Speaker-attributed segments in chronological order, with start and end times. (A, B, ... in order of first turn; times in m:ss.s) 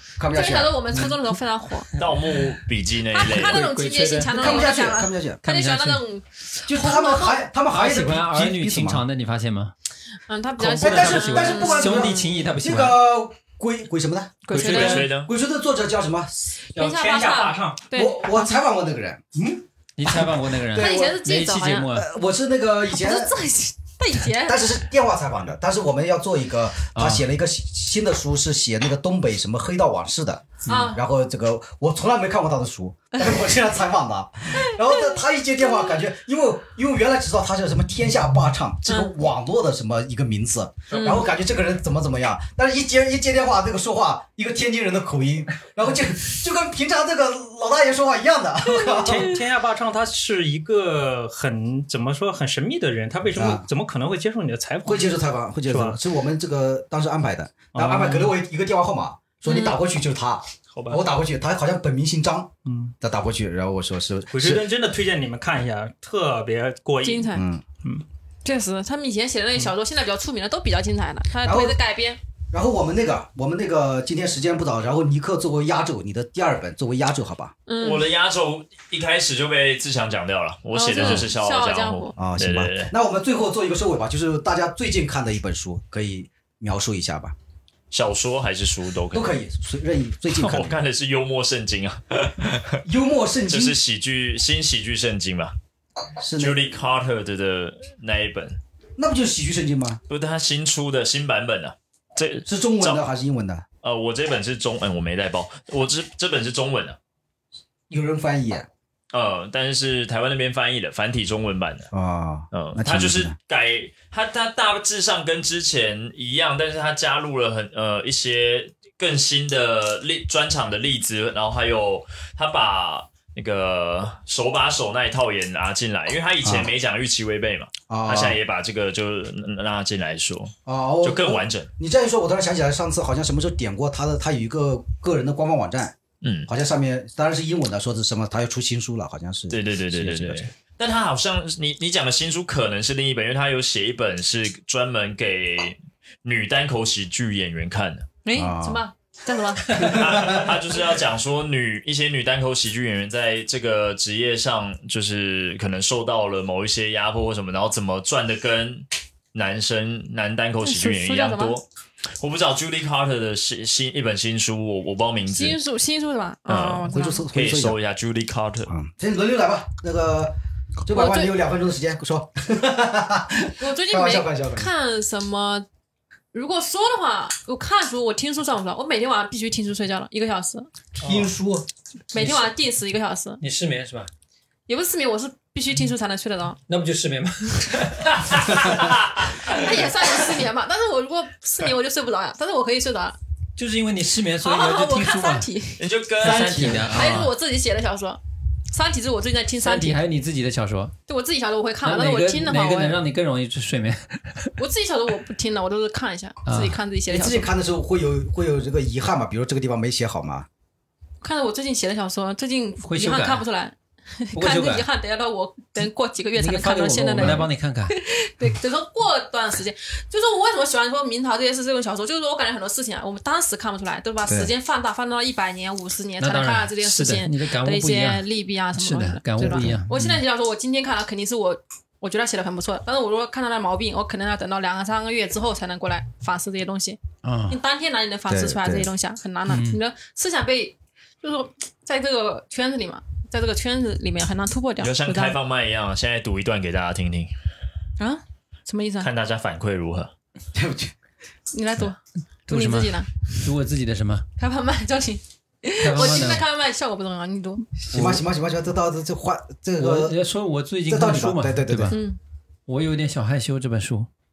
0:00.2-0:00.8 A
0:00.3-0:01.9 B
0:00.9-0:01.2 C
0:01.9-0:02.5 C
0:02.0-0:03.7 D
0:03.1-0:07.4 B
0:03.3-0:04.9 C
0:04.3-0:05.4 A
0:05.4-0:06.0 C
0:06.7-0:09.0 A
0:07.7-0:09.7 C
0:10.3-0:12.2 B
0:10.6-0:13.0 C
0:10.7-0:16.6 A
0:14.5-0:15.1 B
0:14.5-0:15.1 C
0:14.7-0:15.3 D
0:16.7-0:18.6 B
0:16.7-0:17.9 E
0:17.9-0:19.2 A
0:19.4-0:19.6 E
0:20.0-0:22.1 C
0:20.0-0:21.2 A
0:20.7-0:21.9 B
0:21.9-0:23.3 A
0:22.9-0:24.7 B
0:24.4-0:49.3 A
0:27.0-0:27.3 C
0:30.7-0:31.0 B
0:34.7-0:35.2 B
0:38.9-0:39.2 B
0:40.9-0:41.3 B
0:48.8-0:49.1 B
0:49.0-0:55.2 E
0:53.3-0:53.7 A
0:54.8-1:04.6 A
0:55.7-0:56.0 E
0:57.7-0:58.3 E
0:59.5-0:59.8 B
1:00.7-1:01.0 E
1:02.7-1:02.9 E
1:04.3-1:08.0 E
1:07.0-1:07.4 B
1:07.3-1:07.6 A
1:08.4-1:12.2 B
1:11.4-1:11.8 A
1:12.5-1:17.6 A
1:17.7-1:18.2 B
1:17.8-1:22.9 D
1:20.7-1:22.2 B
1:21.0-1:21.3 A
1:22.2-1:27.4 A
1:27.9-1:29.4 D
1:29.1-1:30.8 A
1:30.3-1:32.8 D
1:32.8-1:33.8 A
1:33.5-1:35.5 D
1:36.2-1:36.6 A
1:36.4-1:38.6 D
1:39.0-1:40.0 A
1:40.1-1:43.0 D
1:42.5-1:43.6 A
1:43.8-1:47.0 D
1:47.9-1:48.7 A
1:49.1-1:51.9 D
1:51.9-1:53.4 A
1:52.5-2:11.7 D
2:06.4-2:06.7 A
2:07.9-2:08.4 A
2:10.7-2:16.0 A
2:16.2-2:16.5 D
2:16.5-2:20.5 A
2:19.5-2:28.1 D
2:28.2-2:30.0 B
2:28.3-2:28.8 A
2:29.7-2:30.6 A
2:29.8-2:41.6 D
2:40.6-2:41.6 B
2:42.2-2:45.6 D
2:45.3-2:47.2 B
2:46.5-2:48.7 D
2:46.9-2:47.8 A
2:48.7-2:54.7 A
2:50.9-2:51.3 B
2:53.6-2:55.7 B
2:56.3-3:00.7 B
3:01.0-3:02.5 A
3:02.1-3:03.4 B
3:03.4-3:04.1 C
3:04.7-3:06.6 B
3:06.7-3:08.8 C
3:09.4-3:13.2 B
3:13.6-3:15.5 C
3:14.4-3:20.0 B
3:15.8-3:17.0 D
3:16.2-3:17.3 C
3:16.4-3:16.9 A
3:19.6-3:20.9 C
3:21.1-3:23.0 B
3:21.8-3:24.5 C
3:24.6-3:27.5 B
3:26.5-3:26.8 C
3:27.1-3:30.5 A
3:31.2-3:57.0 B
3:32.8-3:33.5 C
3:34.3-3:34.9 C
3:36.4-3:37.9 C
3:37.2-3:37.5 A
3:44.3-3:44.5 A
3:46.2-3:50.2 C
3:49.4-3:49.8 A
3:57.2-3:57.6 C
3:57.5-4:05.4 B
3:58.3-3:58.9 A
3:59.5-3:59.8 C
4:04.8-4:07.3 D
4:08.0-4:09.1 B
4:09.0-4:10.1 D
4:10.5-4:10.9 A
4:11.5-4:13.2 B
4:12.5-4:14.3 C
4:14.4-4:17.7 B
4:15.8-4:16.5 C
4:17.8-4:20.2 A
4:17.9-4:18.2 C
4:19.8-4:22.0 C
4:20.9-4:22.0 A
4:21.9-4:22.2 B
4:22.7-4:24.1 C